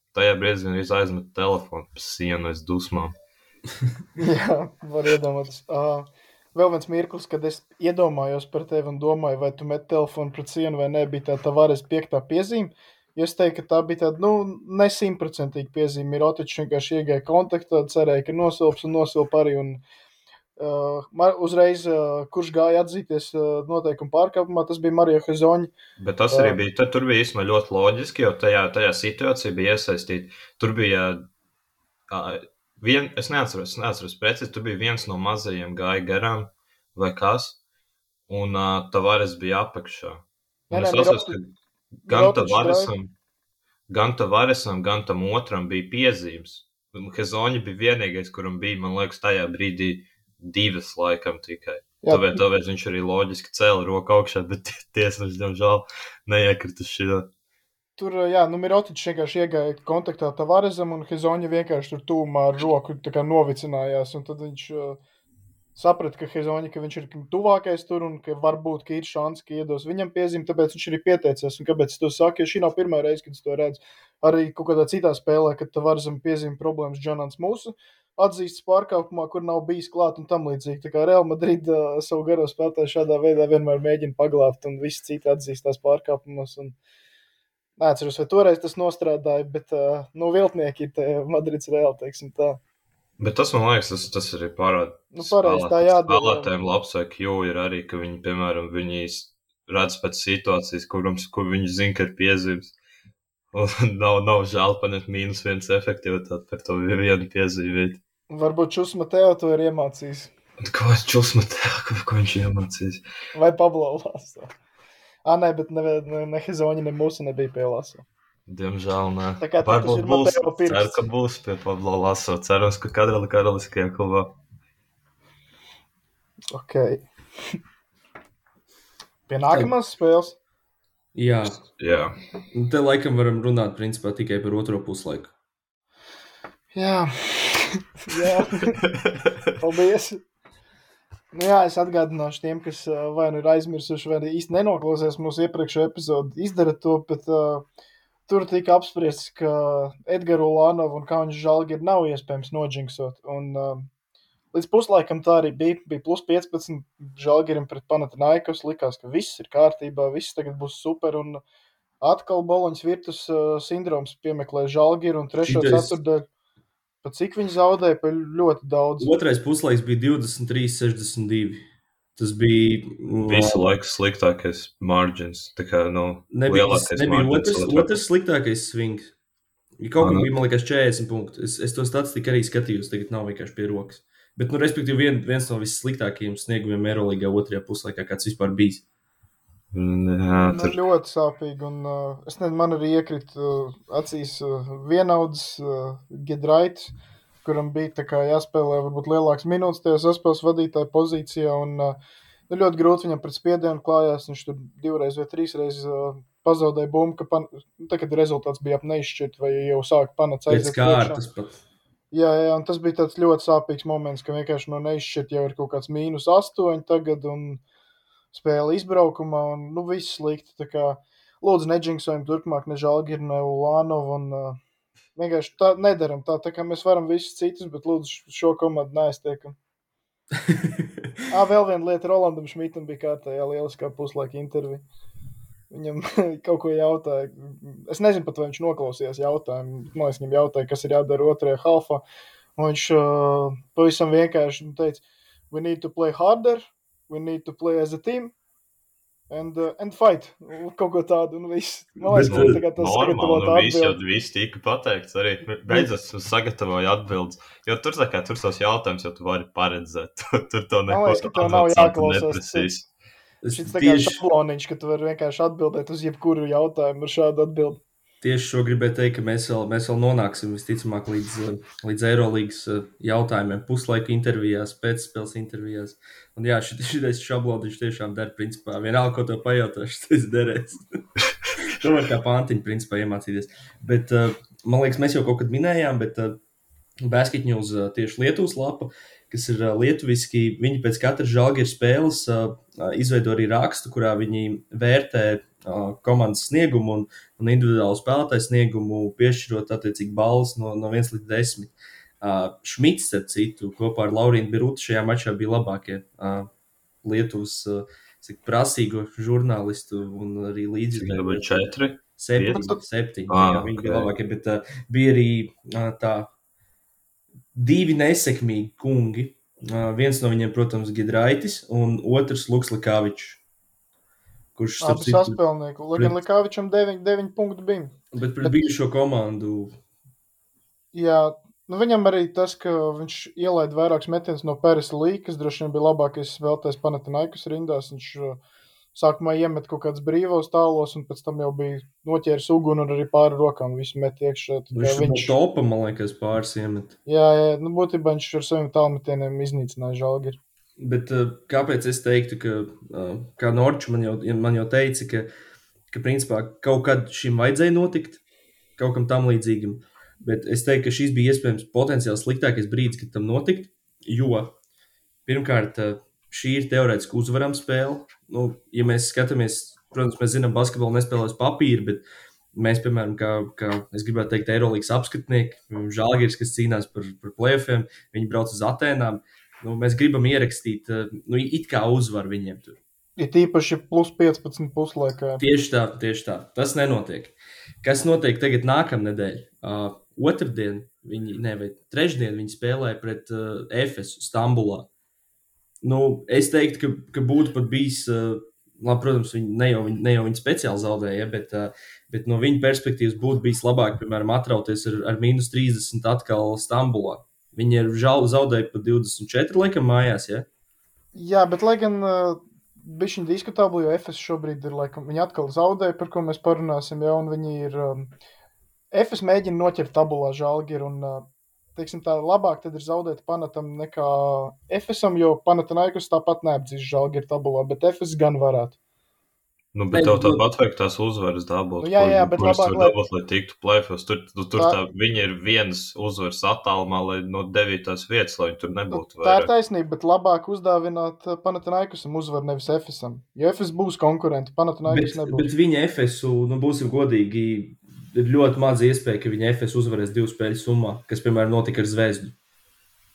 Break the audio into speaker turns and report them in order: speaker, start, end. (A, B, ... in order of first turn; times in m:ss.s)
0:00.1-0:03.1 A
0:04.2-0:19.8 B
0:20.6-0:25.7 B
0:26.0-0:31.2 A
0:26.3-0:26.6 B
0:32.1-0:37.6 A
0:38.3-0:41.5 A
0:40.7-0:41.4 B
0:42.1-0:42.9 B
0:42.1-0:43.1 A
0:43.9-0:57.3 A
0:52.0-0:52.4 B
0:58.0-1:05.0 B
1:05.8-1:26.8 B
1:27.8-1:32.6 B
1:33.2-1:42.7 A
1:35.1-1:36.5 B
1:43.5-1:48.0 A
1:48.3-1:50.3 B
1:50.6-1:53.0 A
1:53.3-1:54.5 B
1:55.2-1:58.1 B
1:58.5-2:04.4 A
1:59.4-2:01.1 B
2:06.5-2:07.6 B
2:09.3-2:10.4 B
2:11.2-2:11.6 C
2:11.6-2:12.2 A
2:12.5-2:15.3 C
2:16.7-2:18.8 B
2:18.9-2:19.5 A
2:19.6-2:20.2 B
2:21.3-2:27.6 B
2:28.3-2:33.9 B
2:34.5-2:41.4 B
2:42.0-2:46.3 B
2:45.4-2:46.0 C
2:47.0-2:49.1 B
2:49.0-2:51.6 C
2:52.2-2:53.7 C
2:53.2-2:58.0 A
2:56.3-2:59.1 C
2:59.8-3:08.8 C
3:00.0-3:00.3 A
3:09.7-3:10.8 A
3:10.5-3:16.9 B
3:17.4-3:22.0 B
3:22.5-3:31.2 B
3:30.5-3:31.6 C
3:32.1-3:37.6 B
3:38.3-3:44.6 B
3:45.2-3:49.6 B
3:50.5-3:50.9 C
3:51.3-3:54.8 B
3:55.7-4:02.0 B
4:02.6-4:08.3 B
4:09.3-4:14.0 B
4:12.0-4:12.6 C
4:12.2-4:22.9 A
4:20.9-4:22.7 B
4:23.4-4:24.2 C
4:23.5-4:27.8 B
4:28.2-4:41.0 C
4:41.6-4:46.4 C
4:47.0-5:06.5 C
5:07.0-5:11.6 C
5:10.9-5:12.8 A
5:12.2-5:16.3 C
5:13.3-5:14.1 A
5:17.5-5:23.4 C
5:24.6-5:25.4 C
5:24.8-5:28.6 B
5:25.9-5:26.2 C
5:28.1-5:29.8 C
5:30.9-5:38.4 B
5:39.0-5:45.3 B
5:44.7-5:47.0 C
5:47.1-5:50.4 B
5:50.8-5:55.3 C
5:55.9-5:58.2 C
5:58.8-6:04.5 C
6:05.3-6:22.8 C
6:23.2-6:25.4 B
6:25.4-6:34.9 C
6:35.8-6:50.5 C
6:51.1-6:58.1 B
6:58.9-7:08.8 B
7:09.7-7:19.5 A
7:09.9-7:10.4 C
7:11.8-7:13.0 B
7:18.9-7:25.5 B
7:24.9-7:32.3 C